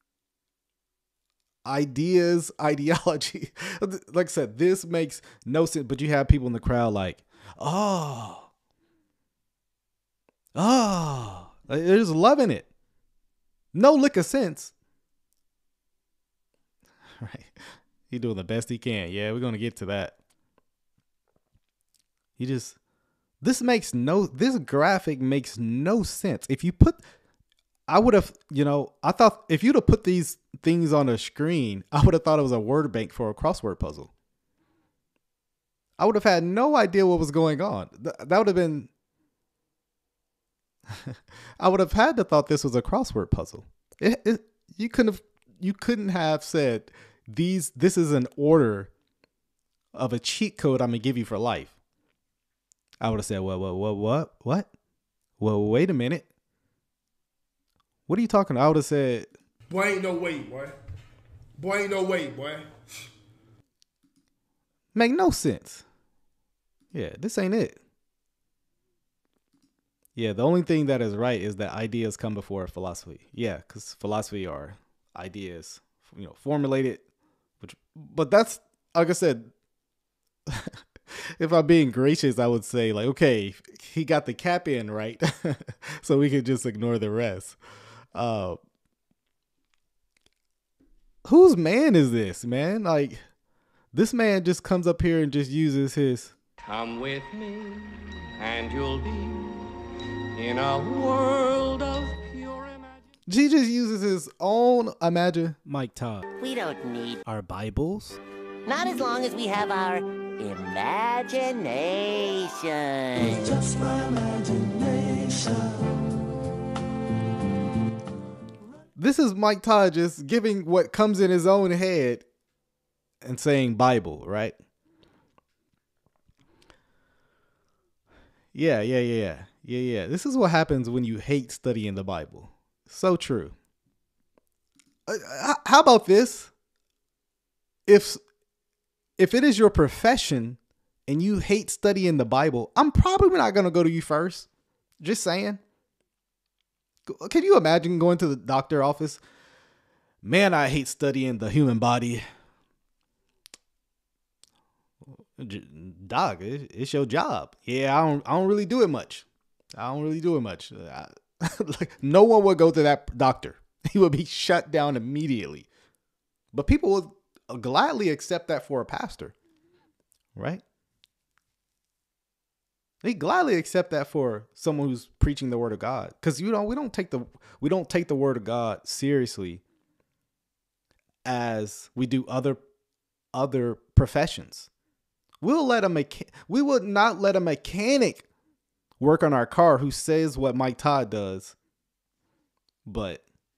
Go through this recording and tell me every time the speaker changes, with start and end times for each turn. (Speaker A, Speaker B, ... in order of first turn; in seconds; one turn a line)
Speaker A: 1.6-8.5
Speaker A: 10.5-12.7
Speaker A: 13.7-14.7
Speaker A: 17.2-20.1
Speaker A: 22.4-22.8
Speaker A: 23.4-27.0
Speaker A: 27.9-34.1
Speaker A: 36.0-38.9
Speaker A: 40.9-48.9
Speaker A: 49.9-51.7
Speaker A: 53.0-54.7
Speaker A: 55.4-56.3
Speaker A: 58.1-59.3
Speaker B: 59.7-60.7
Speaker B: 61.6-63.1
Speaker A: 64.9-65.8
Speaker A: 66.9-67.8
Speaker A: 70.2-77.0
Speaker A: 77.6-79.5
Speaker A: 80.5-87.6
Speaker A: 88.1-88.6
Speaker A: 91.2-93.2
Speaker A: 93.9-96.3
Speaker C: 96.7-99.8
Speaker C: 100.3-103.0
Speaker A: 103.3-106.2
Speaker D: 106.4-107.2
Speaker A: 107.2-108.2
Speaker D: 108.7-113.5
Speaker A: 119.0-122.2
Speaker A: 123.2-124.6
Speaker A: 128.5-133.5
Speaker A: 135.1-136.5
Speaker A: 137.9-138.2
Speaker A: 139.2-144.5
Speaker A: 145.0-145.6
Speaker A: 147.1-149.2
Speaker A: 150.2-152.2
Speaker A: 155.1-165.7
Speaker A: 166.5-169.3
Speaker A: 170.3-170.6
Speaker A: 173.0-179.6
Speaker A: 181.2-182.6
Speaker A: 183.3-184.7
Speaker A: 185.4-188.2
Speaker A: 189.0-191.5
Speaker A: 192.8-193.2